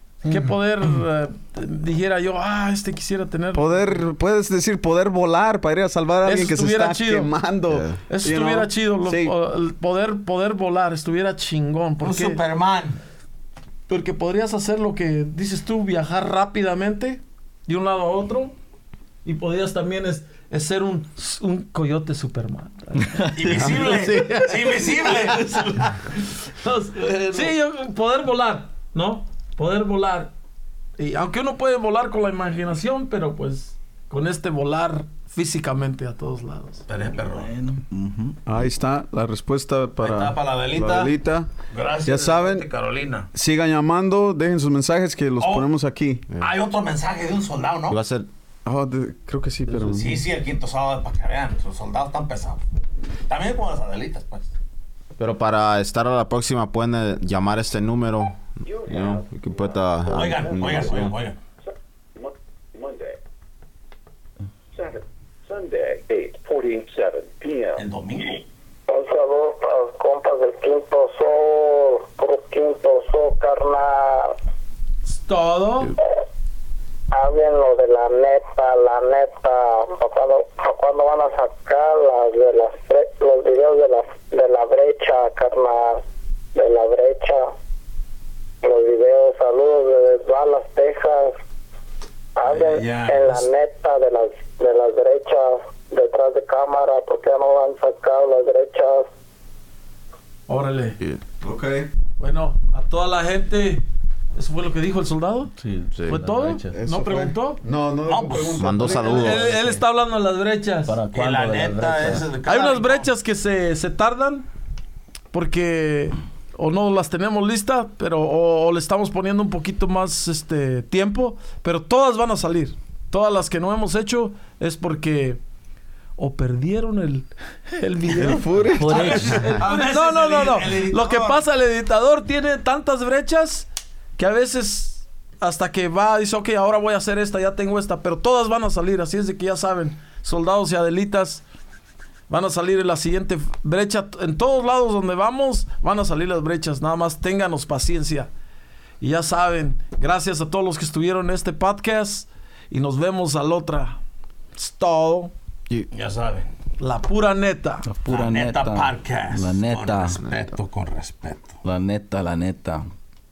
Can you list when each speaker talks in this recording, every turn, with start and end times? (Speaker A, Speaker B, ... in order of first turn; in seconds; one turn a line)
Speaker A: 0.3-4.0
Speaker B: 3.5-9.3
Speaker A: 6.2-7.3
Speaker C: 7.7-8.0
Speaker A: 8.1-12.4
Speaker D: 12.0-13.0
Speaker A: 13.9-18.6
Speaker A: 19.2-30.3
Speaker E: 23.2-24.4
Speaker D: 23.4-25.6
Speaker E: 25.1-25.9
Speaker E: 27.0-27.5
Speaker A: 31.0-36.9
Speaker D: 36.9-37.5
Speaker E: 37.1-38.4
Speaker B: 38.5-41.5
Speaker D: 40.0-41.1
Speaker D: 41.7-43.3
Speaker B: 42.0-42.7
Speaker B: 43.3-46.2
Speaker D: 45.4-45.7
Speaker D: 46.4-48.0
Speaker C: 47.9-48.3
Speaker B: 48.6-50.2
Speaker D: 49.9-52.6
Speaker D: 53.3-54.5
Speaker C: 55.2-61.2
Speaker F: 58.6-61.1
Speaker D: 60.1-61.4
Speaker F: 61.6-63.2
Speaker F: 64.7-67.8
Speaker D: 67.8-68.4
Speaker G: 68.9-74.3
Speaker A: 75.1-76.0
Speaker G: 77.1-86.0
Speaker G: 86.5-87.5
Speaker G: 88.6-91.4
Speaker G: 92.4-99.1
Speaker D: 92.5-93.4
Speaker A: 100.5-101.0
Speaker B: 101.4-101.9
Speaker A: 102.2-103.8
Speaker A: 104.4-105.5
Speaker E: 105.6-106.8
Speaker A: 106.1-107.6
Speaker B: 106.7-109.5
Speaker D: 108.1-108.7
Speaker C: 108.6-109.5
Speaker A: 109.1-111.0
Speaker E: 109.5-109.8
Speaker E: 110.9-112.3
Speaker D: 111.1-113.1
Speaker A: 112.5-114.5
Speaker A: 115.3-125.4
Speaker A: 126.2-141.4
Speaker B: 128.1-129.4
Speaker E: 128.7-129.5
Speaker D: 128.9-131.4
Speaker A: 142.3-148.3
Speaker A: 149.0-154.0
Speaker A: 154.6-155.3
Speaker D: 155.9-156.5
Speaker A: 156.8-157.9
Speaker E: 157.8-160.2
Speaker D: 158.1-161.6
Speaker E: 161.6-162.9